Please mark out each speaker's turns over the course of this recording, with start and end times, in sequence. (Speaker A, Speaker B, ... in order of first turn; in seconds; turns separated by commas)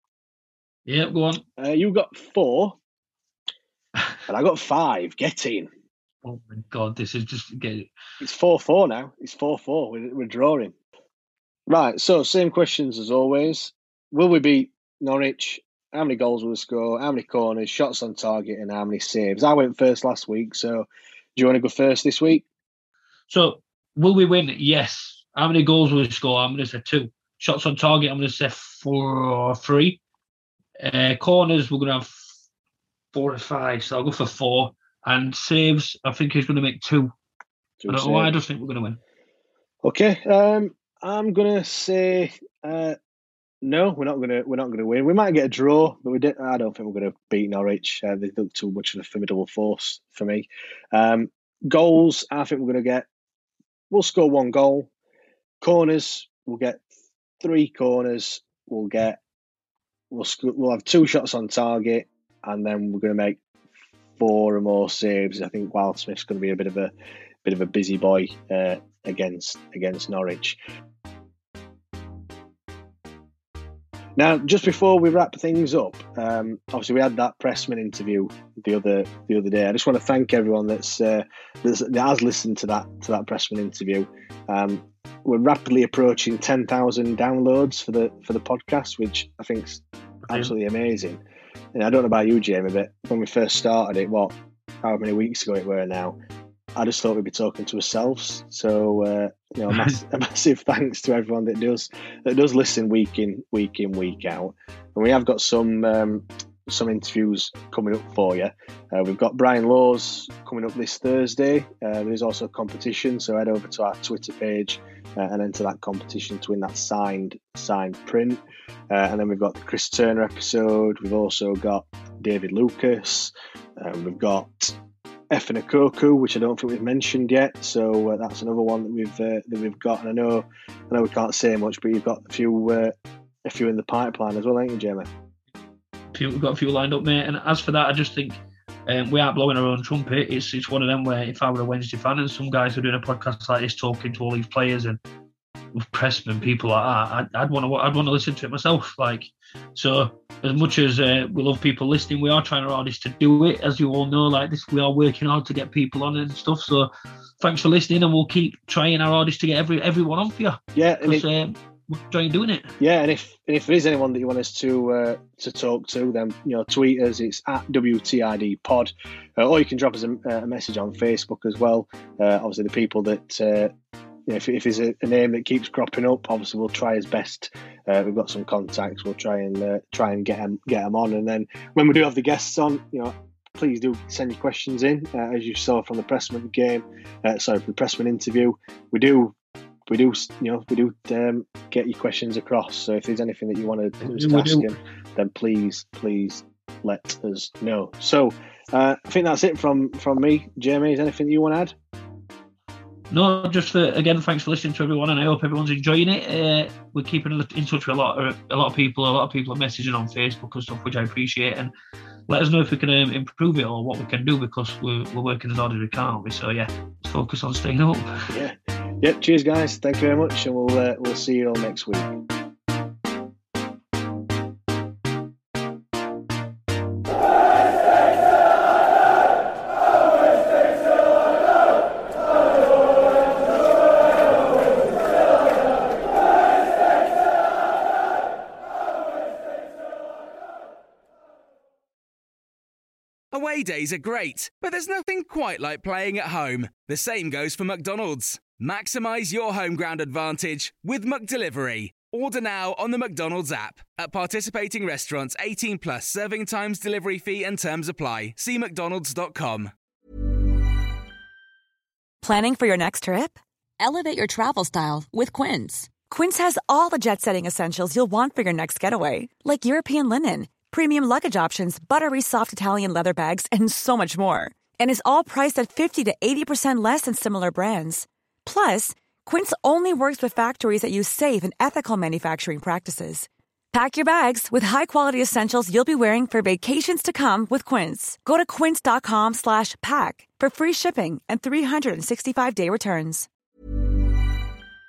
Speaker A: 0.9-1.4, Speaker B: 1.6-2.8, Speaker B: 4.3-5.7, Speaker A: 6.2-7.9, Speaker B: 8.2-10.7, Speaker B: 11.7-22.4, Speaker A: 23.3-30.0, Speaker A: 30.8-32.2, Speaker A: 33.1-37.1, Speaker B: 37.8-38.4, Speaker A: 37.9-39.0, Speaker B: 39.8-43.0, Speaker B: 43.6-53.1, Speaker B: 53.9-54.9, Speaker B: 55.6-56.8, Speaker B: 57.4-59.2, Speaker B: 60.1-63.4, Speaker B: 64.2-66.9, Speaker B: 67.4-70.6, Speaker B: 74.2-91.2, Speaker A: 90.3-90.5, Speaker B: 91.8-96.2, Speaker B: 96.8-124.8, Speaker A: 99.7-100.0, Speaker B: 125.3-132.9, Speaker B: 133.4-135.1, Speaker A: 136.1-145.0, Speaker A: 145.8-162.7, Speaker B: 160.8-161.3, Speaker B: 162.8-173.7, Speaker B: 174.3-189.3, Speaker B: 189.9-201.8, Speaker A: 194.0-194.7, Speaker A: 203.1-211.7, Speaker A: 212.3-218.2, Speaker B: 218.3-222.2, Speaker C: 243.3-259.7, Speaker D: 262.2-293.3